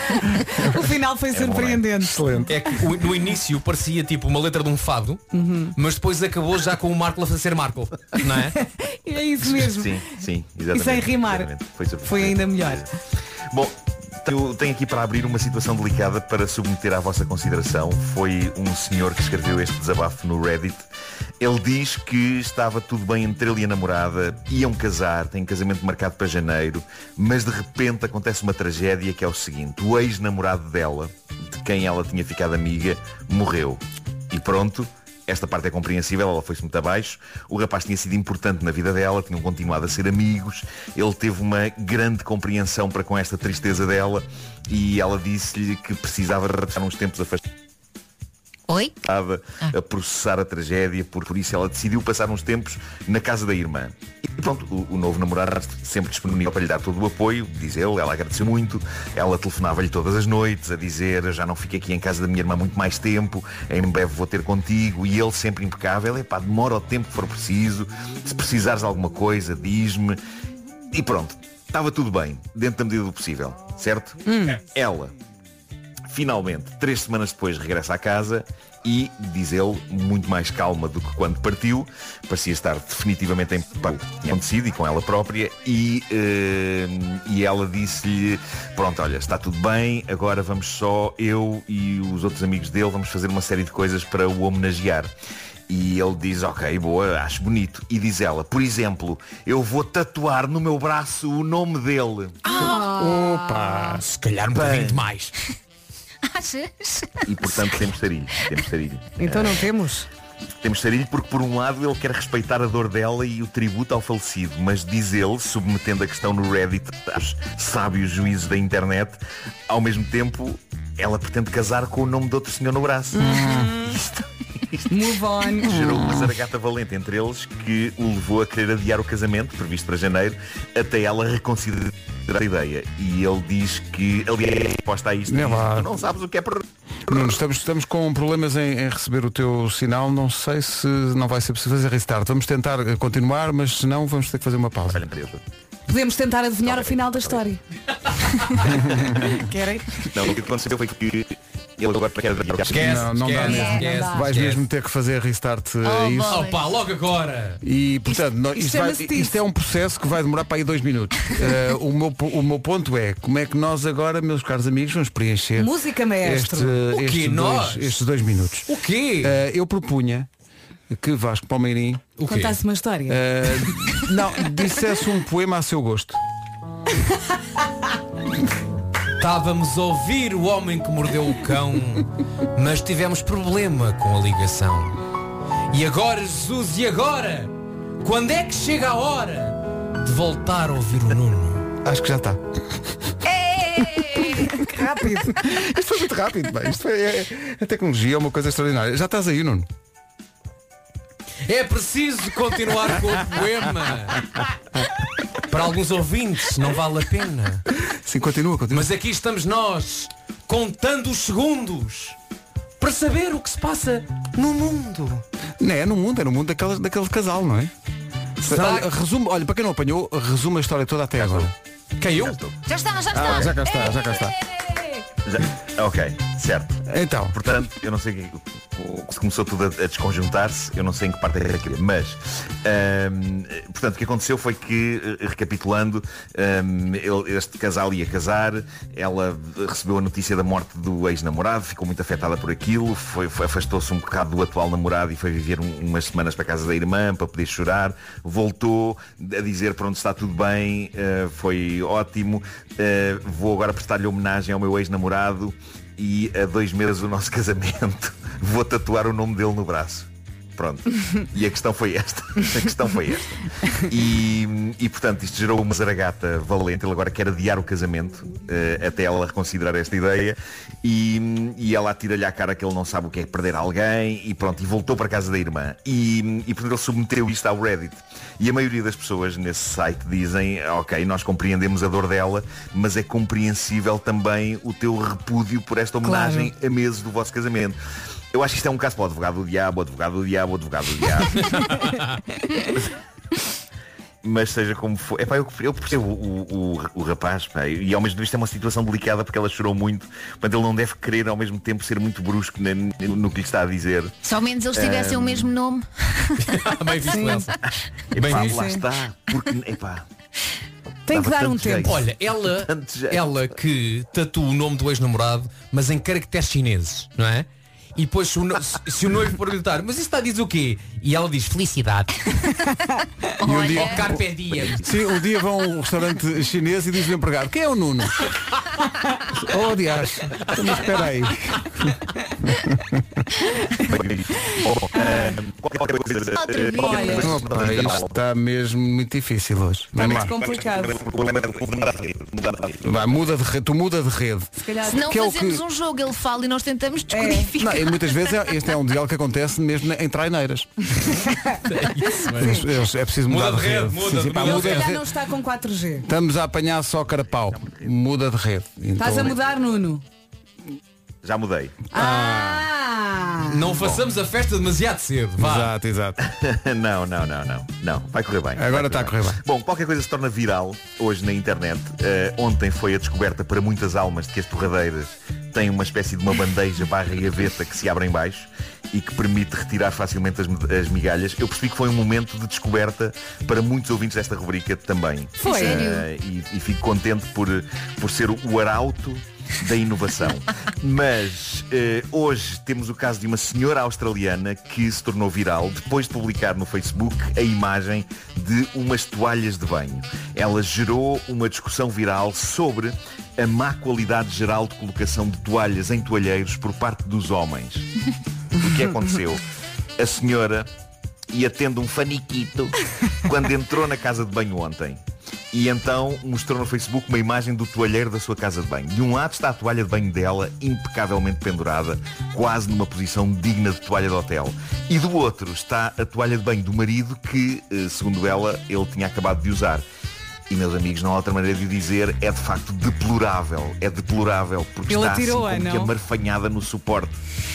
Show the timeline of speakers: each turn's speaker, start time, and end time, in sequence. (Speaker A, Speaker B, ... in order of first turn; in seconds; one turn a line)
Speaker A: 0.5-2.2
Speaker B: 1.3-1.8
Speaker C: 2.0-2.5
Speaker D: 2.5-5.2
Speaker A: 5.3-5.7
Speaker D: 5.8-8.6
Speaker A: 8.8-10.0
Speaker B: 9.6-12.9
Speaker A: 10.7-11.5
Speaker A: 12.0-12.9
Speaker B: 13.5-20.9
Speaker B: 21.4-47.4
Speaker E: 48.7-49.0
Speaker B: 49.0-70.2
Speaker B: 70.9-75.1
Speaker A: 74.3-74.6
Speaker B: 76.1-95.1
Speaker B: 95.7-102.4
Speaker E: 102.5-103.0
Speaker A: 102.5-103.1
Speaker C: 102.6-104.0
Speaker D: 104.0-105.3
Speaker B: 104.5-105.1
Speaker E: 106.2-107.8
Speaker B: 107.3-109.7
Speaker A: 109.2-110.1
Speaker B: 110.6-125.0
Speaker C: 123.2-123.7
Speaker A: 124.9-125.7
Speaker B: 125.5-136.6
Speaker C: 135.3-135.9
Speaker C: 137.1-145.0
Speaker B: 144.9-145.4
Speaker A: 145.9-147.6
Speaker B: 146.6-147.4
Speaker A: 149.2-149.9
Speaker B: 150.1-153.1
Speaker D: 152.7-154.6
Speaker C: 152.7-156.5
Speaker E: 153.4-153.8
Speaker A: 153.4-154.3
Speaker E: 155.8-156.6
Speaker D: 156.3-157.6
Speaker C: 157.6-170.3
Speaker A: 158.1-159.4
Speaker A: 165.6-166.8
Speaker D: 166.9-168.0
Speaker D: 168.7-169.4
Speaker C: 170.9-172.1
Speaker D: 172.2-172.6
Speaker A: 172.3-173.2
Speaker C: 173.1-176.2
Speaker D: 179.2-185.0
Speaker D: 185.7-187.5
Speaker D: 188.0-191.7
Speaker C: 191.8-192.4
Speaker E: 193.5-194.4
Speaker A: 194.5-195.4
Speaker C: 195.3-199.7
Speaker D: 201.5-204.3
Speaker D: 205.5-207.7
Speaker C: 207.9-208.9
Speaker D: 208.7-212.2
Speaker D: 212.8-215.2
Speaker C: 215.6-217.7
Speaker C: 218.4-221.5
Speaker D: 218.4-218.9
Speaker B: 221.2-221.5
Speaker D: 222.0-222.4
Speaker B: 222.1-222.6
Speaker E: 222.7-224.8
Speaker C: 223.1-224.3
Speaker B: 225.2-287.8
Speaker C: 226.9-227.4
Speaker A: 286.0-286.5
Speaker B: 288.3-291.7
Speaker D: 291.5-292.1
Speaker B: 294.2-304.1
Speaker E: 304.2-306.4
Speaker B: 304.7-305.5
Speaker D: 306.4-307.6
Speaker A: 307.1-307.5
Speaker D: 308.1-308.7
Speaker B: 308.1-310.1
Speaker A: 308.3-308.8
Speaker A: 311.1-311.9
Speaker B: 311.1-313.3
Speaker D: 311.9-322.2
Speaker E: 323.4-324.2
Speaker C: 323.4-328.2
Speaker D: 323.7-324.8
Speaker C: 329.3-333.2
Speaker B: 333.9-338.2
Speaker E: 336.3-337.5
Speaker A: 336.8-337.3
Speaker C: 337.2-340.3
Speaker A: 340.0-341.0
Speaker B: 340.1-343.0
Speaker C: 342.8-345.6
Speaker A: 344.6-345.1
Speaker E: 344.9-348.0
Speaker A: 347.1-347.5
Speaker C: 347.6-350.7
Speaker A: 351.1-351.6
Speaker D: 351.7-352.6
Speaker C: 352.3-355.1
Speaker A: 352.4-352.6
Speaker D: 353.3-354.9
Speaker A: 354.4-356.1
Speaker C: 356.1-359.4
Speaker B: 357.4-357.9
Speaker A: 359.0-360.0
Speaker B: 361.2-361.8
Speaker A: 361.9-363.6
Speaker C: 361.9-362.7
Speaker D: 363.5-365.7
Speaker C: 365.4-366.2
Speaker B: 366.2-407.9
Speaker C: 368.6-369.4
Speaker A: 385.4-385.9
Speaker E: 385.4-386.1
Speaker B: 408.6-409.4
Speaker B: 410.0-410.7
Speaker B: 411.3-429.9
Speaker B: 430.5-437.2
Speaker A: 434.9-435.9